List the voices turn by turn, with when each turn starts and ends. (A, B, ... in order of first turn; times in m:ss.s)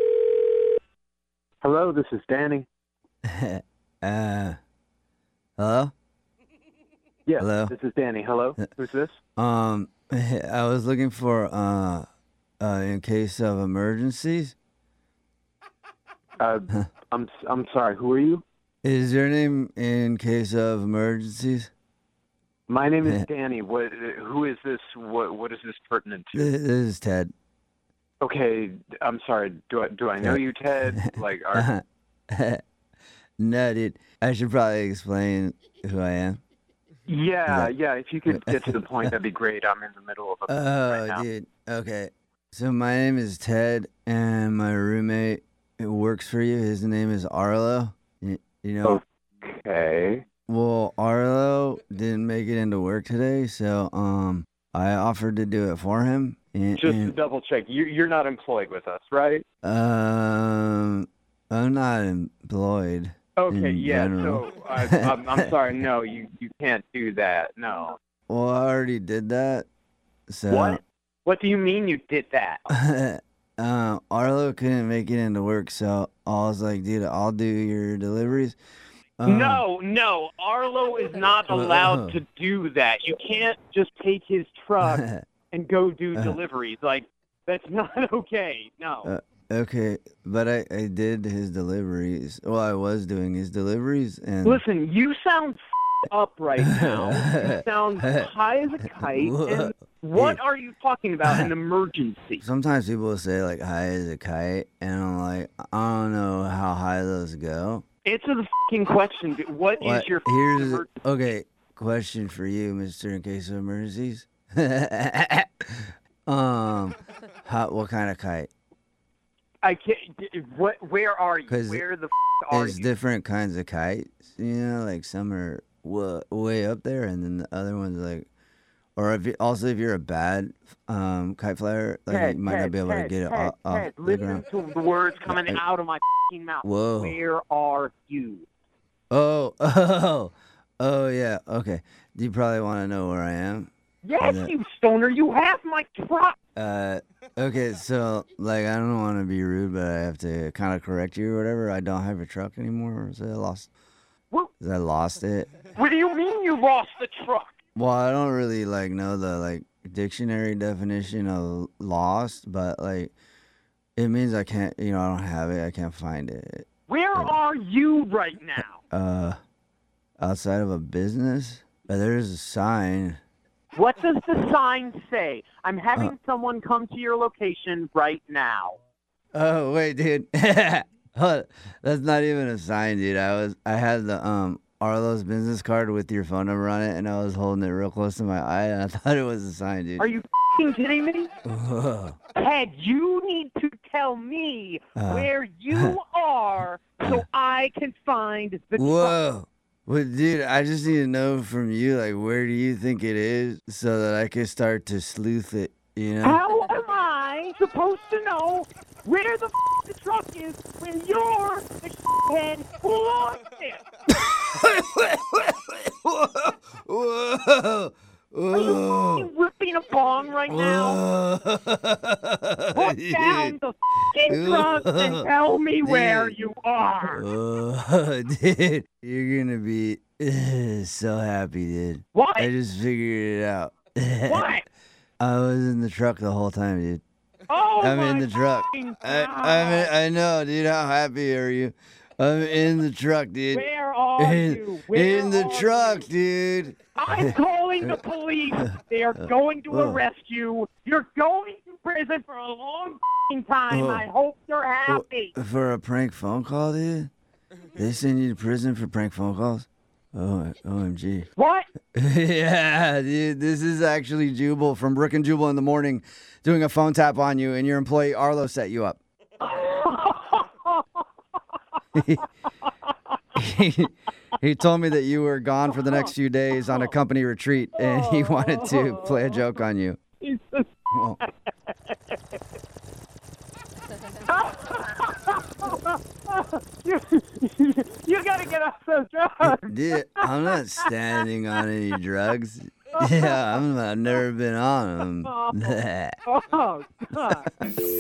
0:01.6-0:02.7 A
0:03.2-0:04.6 B
0:05.6-0:05.9 B
0:07.3-0:09.2 A
0:07.4-0:07.7 B
0:09.4-0:12.1 B
0:12.6-0:14.6 B
0:16.4-0:18.4 A
0:18.8-0:21.7 B
0:22.7-0:26.5 A
0:26.3-0:27.3 B
0:28.2-0:31.7 A
0:30.2-0:32.6 B
0:33.4-0:36.4 B
0:37.1-0:41.3 A
0:37.5-0:37.7 B
0:38.3-0:39.2 B
0:40.5-0:49.0 B
0:48.8-0:50.2 A
0:50.5-0:57.2 B
0:56.8-0:59.4 A
0:59.6-1:05.5 B
1:03.4-1:08.0 A
1:08.3-1:09.7 B
1:10.3-1:10.8 B
1:10.5-1:12.6 A
1:12.7-1:18.6 B
1:19.2-1:19.6 B
1:19.2-1:29.1 A
1:21.5-1:22.2 B
1:24.8-1:25.2 B
1:29.0-1:34.6 B
1:34.4-1:42.4 A
1:36.6-1:38.3 B
1:38.9-1:40.4 B
1:41.3-1:41.5 B
1:42.4-1:47.8 B
1:48.0-1:50.9 A
1:49.8-1:58.5 B
1:59.6-2:02.9 A
2:01.5-2:01.9 B
2:02.5-2:08.3 B
2:09.0-2:14.4 B
2:12.1-2:18.5 A
2:15.3-2:15.6 B
2:16.6-2:17.2 B
2:19.1-2:24.5 B
2:24.0-2:26.4 A
2:26.6-2:33.7 B
2:34.6-2:35.6 B
2:35.7-2:37.5 A
2:37.8-2:43.1 B
2:44.0-2:47.3 B
2:46.9-2:48.8 A
2:48.9-2:49.4 B
2:50.2-2:53.2 B
2:53.7-2:58.8 A
2:59.3-3:10.1 B
3:10.0-3:11.3 A
3:11.4-3:12.2 B
3:12.4-3:19.2 A
3:15.0-3:16.0 B
3:18.8-3:26.4 B
3:26.2-3:33.8 A
3:34.2-3:39.3 B
3:38.5-3:41.0 A
3:40.5-3:43.5 B
3:42.7-3:47.2 A
3:44.3-3:45.3 B
3:45.8-3:46.4 B
3:47.0-3:54.5 B
3:52.1-3:52.5 A
3:54.3-3:54.6 A
3:55.2-3:57.0 B
3:57.5-3:59.9 A
3:57.8-4:08.0 B
4:03.5-4:06.1 A
4:07.0-4:15.3 A
4:09.2-4:10.0 B
4:13.7-4:14.1 B
4:14.9-4:17.1 B
4:17.8-4:21.3 B
4:21.4-4:21.7 A
4:22.0-4:29.0 B
4:29.4-4:30.8 A
4:32.0-4:32.2 B
4:33.4-4:40.0 B
4:37.8-4:39.5 A
4:40.2-4:41.3 A
4:40.9-4:41.2 B
4:41.9-4:42.2 A
4:44.2-4:50.9 A
4:49.4-4:56.2 B
4:53.0-4:53.4 A
4:55.2-4:57.5 A